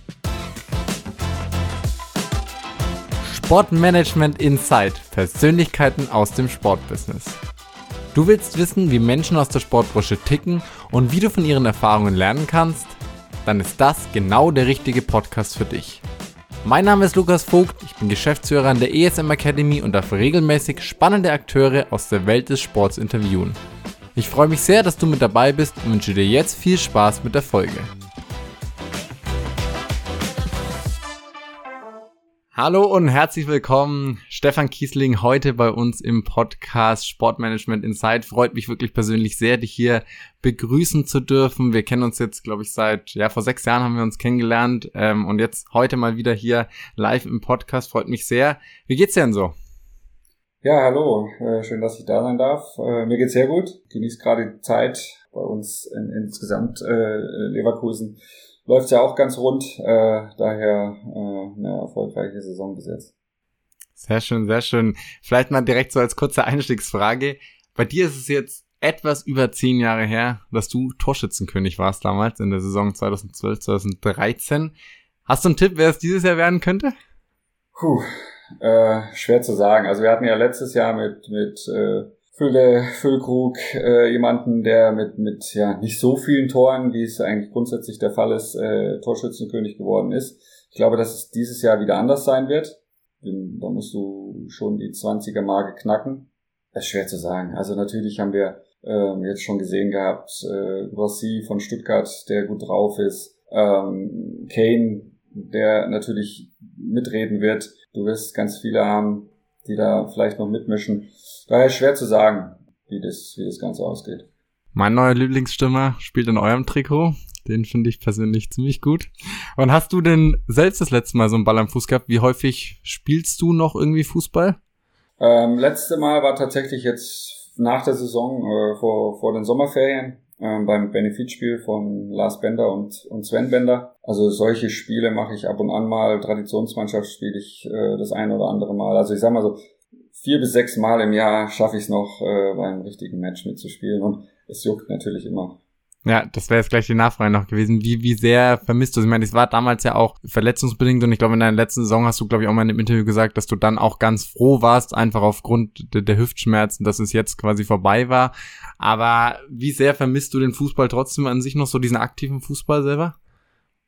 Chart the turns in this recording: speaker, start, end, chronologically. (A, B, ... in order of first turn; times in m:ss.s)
0:03.2-0:07.4 A
0:08.1-0:16.0 A
0:16.6-0:23.6 A
0:24.2-0:27.9 A
0:32.5-0:49.5 A
0:50.6-1:03.1 B
1:04.0-1:14.7 A
1:15.3-1:16.9 A
1:17.8-1:54.3 B
1:54.8-2:04.6 A
2:05.2-2:19.6 B
2:20.2-2:25.6 B
2:26.0-2:43.2 A